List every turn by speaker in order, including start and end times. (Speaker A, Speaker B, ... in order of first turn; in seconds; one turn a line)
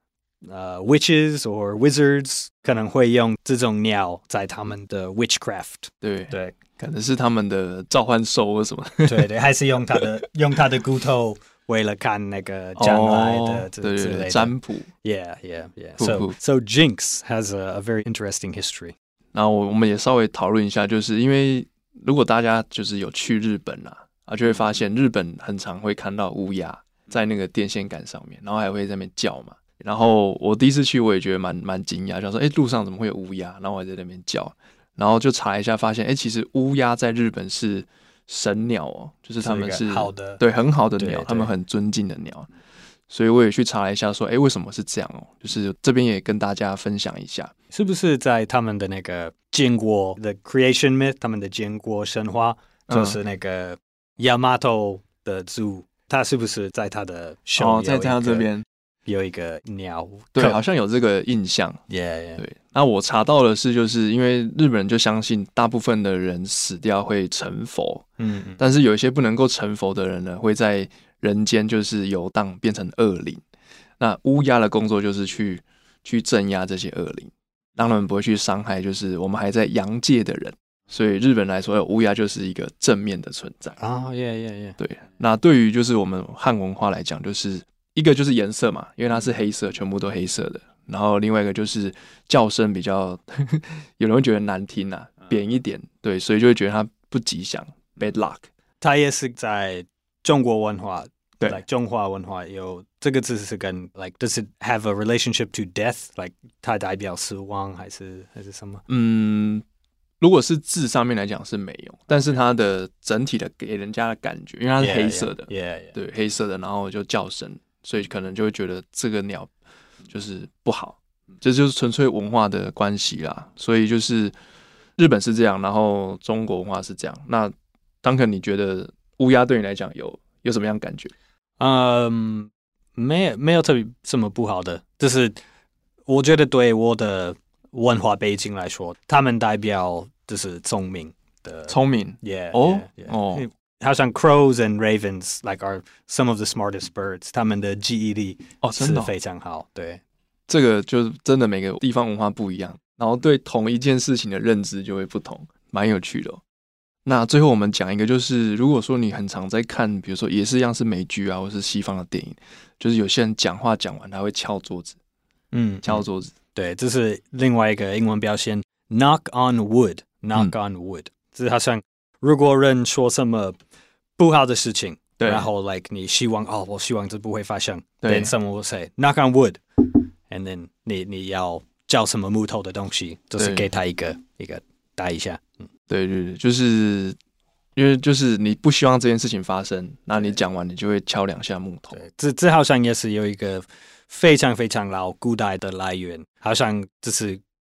Speaker A: 0.5-6.6
Speaker B: 6.0-9.3
Speaker A: 9.1-18.9
Speaker B: 12.8-14.9
Speaker B: 16.0-16.4
Speaker B: 19.3-42.5
Speaker A: 39.4-40.4
Speaker A: 41.0-41.5
Speaker B: 43.1-47.5
Speaker A: 47.7-58.5
Speaker B: 52.9-53.2
Speaker B: 57.6-58.6
Speaker A: 59.1-60.6
Speaker B: 60.4-61.8
Speaker A: 61.9-62.4
Speaker B: 62.4-68.0
Speaker A: 68.2-68.6
Speaker B: 68.6-73.4
Speaker B: 74.0-83.8
Speaker A: 83.8-84.8
Speaker B: 84.8-98.5
Speaker A: 98.8-108.8
Speaker B: 108.9-109.6
Speaker B: 110.2-119.5
Speaker A: 114.8-115.9
Speaker B: 120.1-124.3
Speaker B: 125.0-131.1
Speaker A: 131.6-135.4
Speaker A: 136.1-150.0
Speaker B: 141.7-143.5
Speaker B: 148.6-149.1
Speaker B: 150.5-156.4
Speaker B: 157.1-165.0
Speaker A: 165.5-173.6
Speaker B: 165.8-166.3
Speaker A: 174.2-179.6
Speaker B: 175.2-175.5
Speaker B: 178.0-178.3
Speaker A: 180.3-185.7
Speaker B: 183.4-183.7
Speaker B: 185.9-187.2
Speaker B: 187.8-192.0
Speaker A: 191.9-197.4